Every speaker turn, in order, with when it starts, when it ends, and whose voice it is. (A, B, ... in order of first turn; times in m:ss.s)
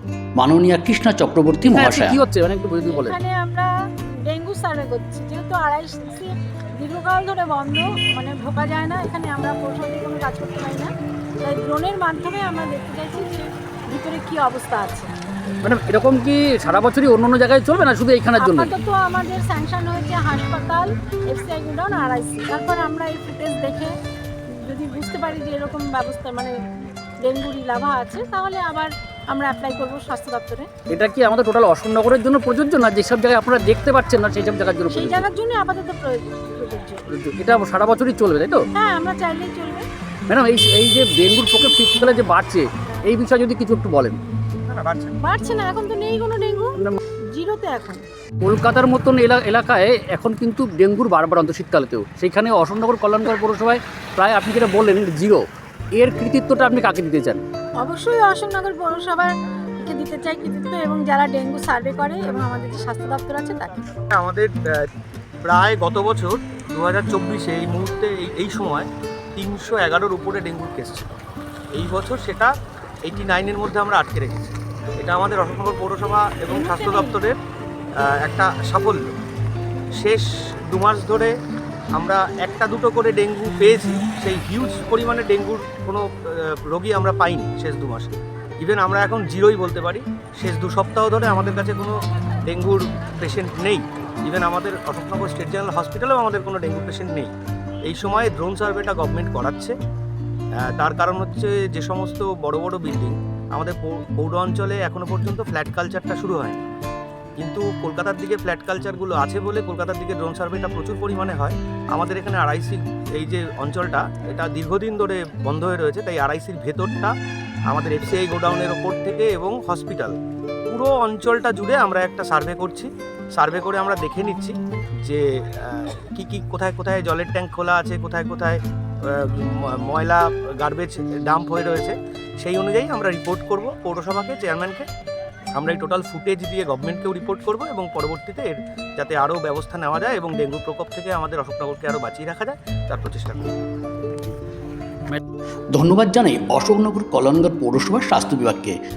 0:00.4-0:02.2 A
0:01.7-0:03.1 B
0:02.8-0:03.7 C
0:04.3-0:10.9 C
0:11.4-0:15.1 C
0:15.6-0:18.7 B
0:18.4-0:23.9 C
0:24.6-0:26.5 C
0:27.2-0:30.7 C
0:30.9-0:35.3 B
0:34.9-0:37.0 C
0:37.1-0:38.6 B
0:38.8-0:39.8 C
0:40.3-0:44.2 B
0:44.7-0:45.2 D
0:45.2-0:46.7 C
0:47.3-0:48.0 C
0:48.4-0:55.4 B
0:56.0-0:57.4 B
0:57.8-1:03.8 C
1:04.1-1:04.9 D
1:05.4-1:11.2 D
1:11.7-1:12.5 D
1:13.0-1:17.4 D
1:16.5-1:17.2 C
1:18.0-1:19.1 D
1:20.0-1:21.3 D
1:22.0-1:37.3 D
1:37.8-1:39.7 D
1:40.6-1:46.6 D
1:47.4-1:57.1 D
1:57.7-2:00.2 D
2:00.7-2:14.9 D
2:15.6-2:23.5 D
2:25.7-2:28.8 A